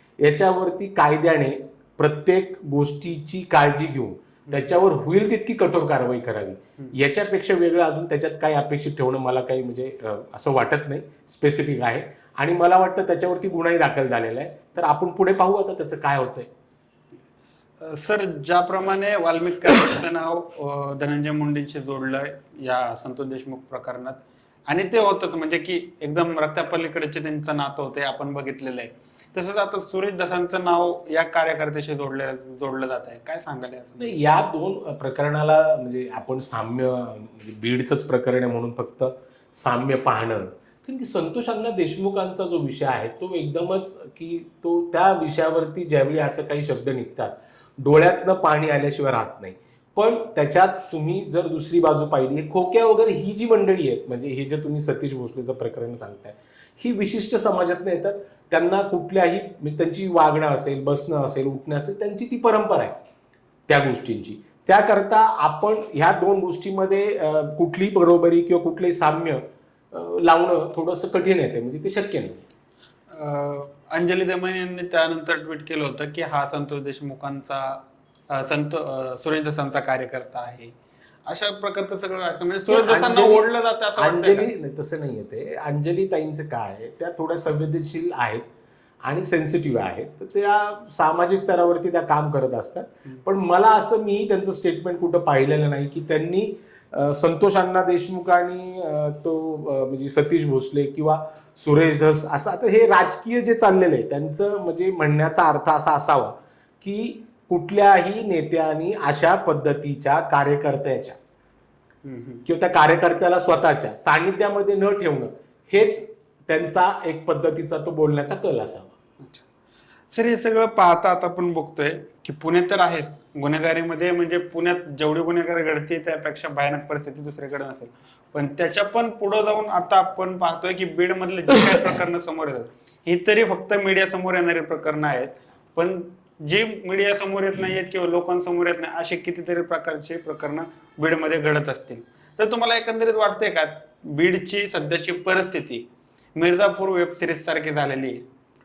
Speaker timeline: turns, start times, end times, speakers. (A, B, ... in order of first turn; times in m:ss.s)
0:00.2-0:16.5 A
0:04.5-0:04.7 B
0:17.8-0:34.2 B
0:34.0-1:03.0 A
1:03.7-1:12.5 A
1:13.1-1:20.7 B
1:21.2-1:24.5 B
1:22.7-1:28.5 A
1:29.0-1:51.2 A
1:52.0-1:52.4 B
1:52.4-1:58.9 A
1:59.2-1:59.5 B
2:00.1-2:28.2 B